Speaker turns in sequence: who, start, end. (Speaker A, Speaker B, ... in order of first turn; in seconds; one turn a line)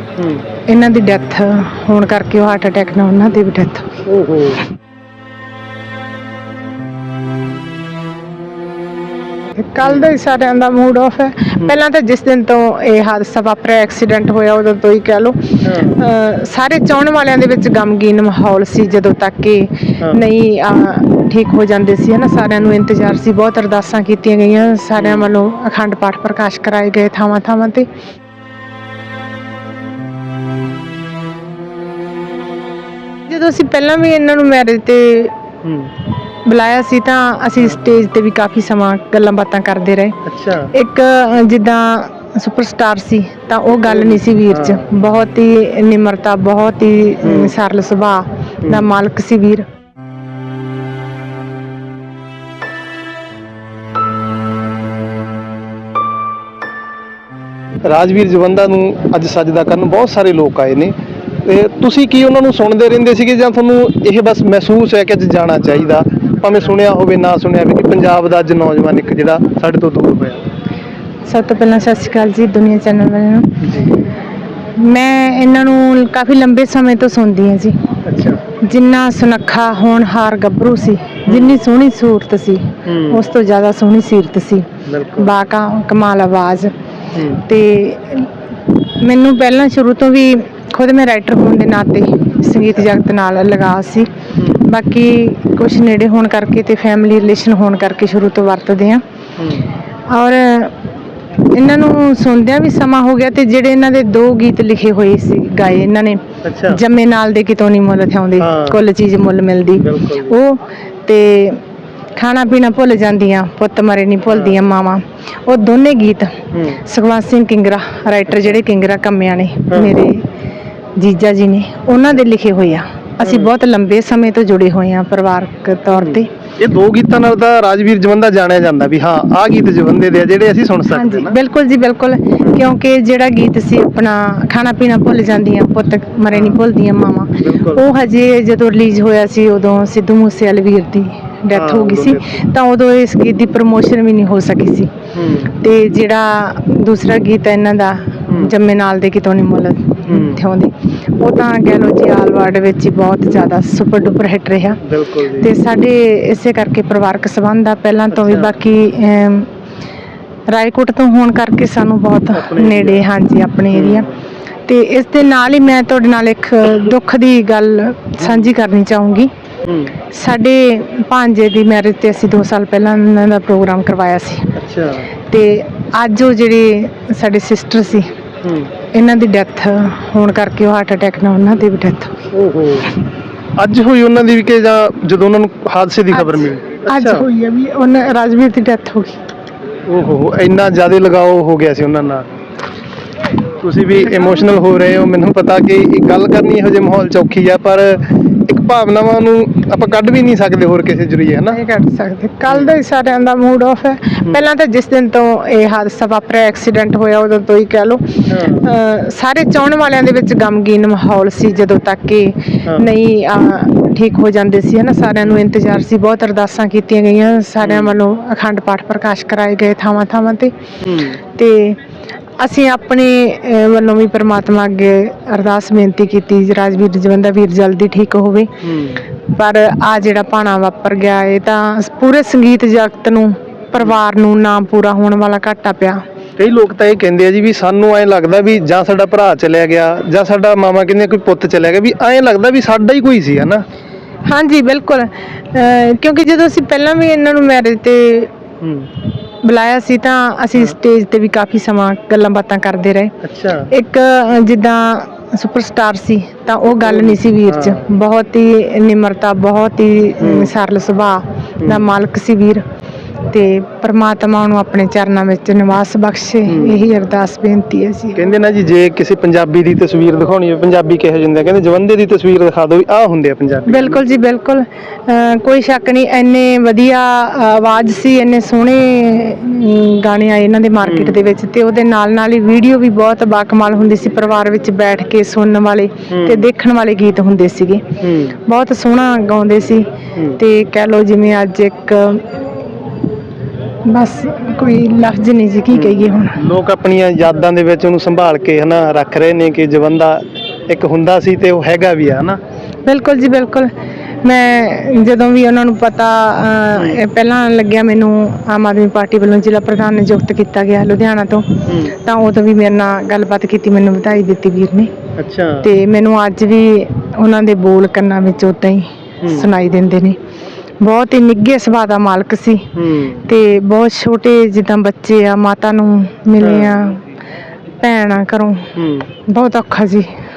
Speaker A: 0.2-0.5
Speaker B: 0.7-4.0
Speaker A: 4.1-4.7
Speaker B: 9.5-27.9
Speaker A: 9.8-10.1
Speaker A: 15.6-16.0
Speaker A: 24.9-25.3
Speaker B: 33.3-35.4
Speaker A: 35.6-35.9
Speaker B: 36.5-40.2
Speaker A: 40.3-40.7
Speaker B: 40.7-49.7
Speaker A: 43.9-44.9
Speaker A: 47.2-47.6
Speaker A: 57.9-70.4
Speaker B: 71.2-73.7
Speaker A: 73.6-74.0
Speaker B: 74.8-77.9
Speaker A: 78.0-78.4
Speaker B: 78.6-86.7
Speaker A: 81.3-81.6
Speaker A: 82.8-83.3
Speaker A: 84.9-85.4
Speaker A: 87.1-87.4
Speaker B: 87.3-99.0
Speaker A: 94.4-94.6
Speaker A: 99.4-99.7
Speaker B: 100.1-100.7
Speaker B: 101.5-111.6
Speaker A: 106.4-106.8
Speaker A: 108.4-108.8
Speaker A: 109.8-110.4
Speaker B: 112.2-120.3
Speaker A: 114.3-114.7
Speaker A: 116.5-116.8
Speaker B: 121.0-126.3
Speaker A: 123.2-123.5
Speaker A: 126.0-131.4
Speaker B: 130.9-144.9
Speaker A: 132.4-132.7
Speaker A: 136.3-136.6
Speaker A: 137.4-137.8
Speaker A: 141.5-142.4
Speaker A: 145.2-145.6
Speaker B: 145.5-154.8
Speaker A: 150.1-150.4
Speaker A: 154.8-155.5
Speaker B: 155.4-159.5
Speaker A: 158.1-158.6
Speaker B: 160.5-164.1
Speaker A: 162.3-163.1
Speaker A: 163.7-164.2
Speaker B: 164.7-169.3
Speaker A: 168.2-168.5
Speaker A: 169.7-169.9
Speaker B: 170.1-174.6
Speaker A: 174.6-175.1
Speaker B: 175.3-178.1
Speaker A: 178.4-178.7
Speaker B: 178.9-182.3
Speaker A: 182.3-183.0
Speaker A: 183.6-187.3
Speaker B: 186.1-189.2
Speaker A: 189.9-192.3
Speaker A: 193.6-201.6
Speaker B: 201.5-220.5
Speaker A: 202.5-202.8
Speaker A: 208.3-208.7
Speaker A: 217.6-218.0
Speaker A: 220.8-221.2
Speaker B: 221.2-221.8
Speaker B: 222.4-228.5
Speaker A: 228.6-229.1
Speaker B: 229.1-236.0
Speaker A: 236.4-243.6
Speaker B: 244.3-248.3
Speaker A: 248.6-248.9
Speaker B: 249.4-253.2
Speaker A: 253.2-253.7
Speaker B: 253.7-262.6
Speaker A: 256.8-257.9
Speaker A: 260.2-260.5
Speaker A: 261.6-261.9
Speaker B: 263.3-268.3
Speaker A: 266.5-266.9
Speaker A: 268.1-274.0
Speaker B: 273.7-292.4
Speaker A: 280.8-281.4
Speaker A: 286.1-286.5
Speaker A: 288.0-288.4
Speaker B: 293.9-296.4
Speaker A: 295.7-302.4
Speaker B: 302.9-303.7
Speaker B: 304.2-314.9
Speaker A: 306.8-307.0
Speaker A: 311.7-311.9
Speaker A: 315.2-315.7
Speaker B: 315.6-320.2
Speaker A: 319.2-319.5
Speaker B: 320.8-322.7
Speaker A: 322.8-323.3
Speaker B: 323.3-327.0
Speaker A: 326.4-326.9
Speaker B: 327.8-328.7
Speaker A: 328.8-329.1
Speaker B: 329.2-330.1